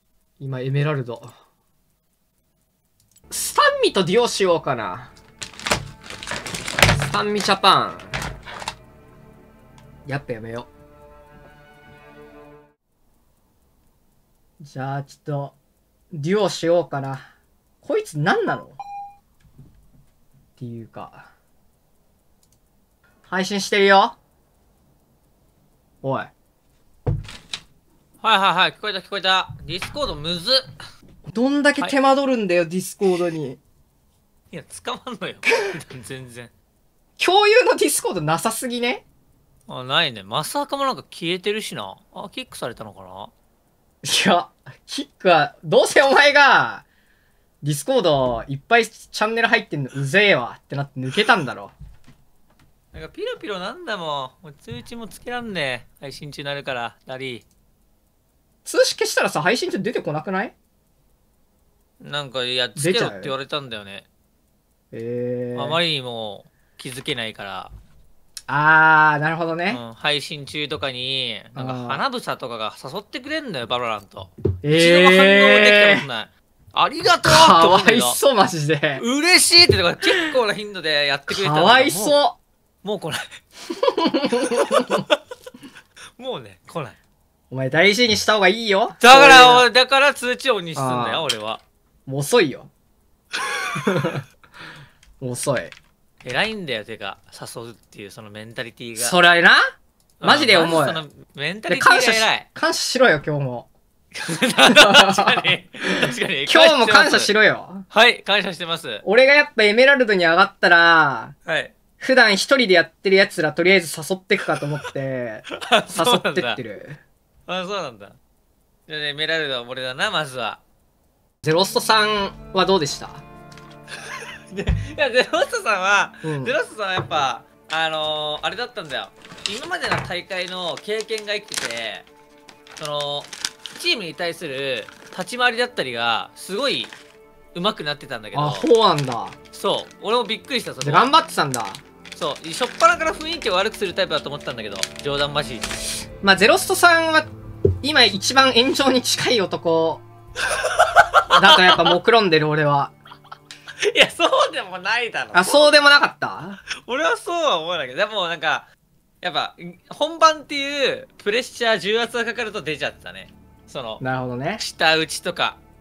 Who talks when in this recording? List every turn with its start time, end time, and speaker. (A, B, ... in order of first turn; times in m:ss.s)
0:00.4-0:01.3 A
0:03.3-0:05.1 A
0:06.9-0:08.2 A
0:10.0-0:10.7 A
0:14.6-0:15.5 A
0:16.1-0:17.2 A
0:17.8-0:18.8 A
0:20.6-0:21.3 A
0:23.3-0:24.2 A
0:26.0-0:26.3 A
0:28.2-0:30.8 B
0:31.3-0:33.6 A
0:34.5-0:36.5 B
0:37.2-0:39.0 A
0:39.7-0:43.3 B
0:44.0-0:46.8 A
0:47.6-0:51.7 A
0:52.9-0:57.4 B
0:58.6-1:00.6 A
1:02.0-1:04.1 B
1:02.8-1:03.3 A
1:04.9-1:05.8 A
1:05.6-1:07.7 B
1:08.5-1:09.8 A
1:09.7-1:18.2 B
1:11.6-1:12.0 A
1:14.6-1:16.0 A
1:17.2-1:19.0 A
1:19.0-1:22.2 B
1:21.3-1:22.4 A
1:22.8-1:23.4 B
1:23.9-1:25.0 A
1:26.2-1:27.0 B
1:27.5-1:29.7 A
1:29.0-1:31.6 B
1:30.8-1:31.3 A
1:32.1-1:32.7 A
1:33.8-1:34.2 A
1:35.2-1:35.7 A
1:36.2-1:39.2 B
1:39.0-1:39.6 A
1:40.2-1:42.5 B
1:40.2-1:41.0 A
1:41.7-1:43.7 A
1:44.1-1:47.3 B
1:44.6-1:45.5 A
1:46.0-1:47.9 A
1:47.9-1:49.0 B
1:49.0-1:51.3 A
1:51.4-1:51.8 B
1:52.0-1:57.0 A
1:55.6-1:56.6 B
1:57.5-1:58.2 B
1:58.9-2:00.6 B
2:01.4-2:03.2 A
2:04.5-2:12.1 B
2:06.2-2:06.6 A
2:12.8-2:17.0 B
2:17.5-2:18.7 B
2:18.3-2:19.4 A
2:19.5-2:21.1 B
2:20.8-2:21.8 A
2:22.1-2:25.7 B
2:26.2-2:27.3 A
2:27.8-2:30.0 A
2:30.5-2:31.9 B
2:31.4-2:32.9 A
2:33.8-2:35.7 B
2:35.3-2:36.6 A
2:36.8-2:38.7 B
2:39.2-2:44.0 B
2:44.0-2:44.6 A
2:44.6-2:45.6 B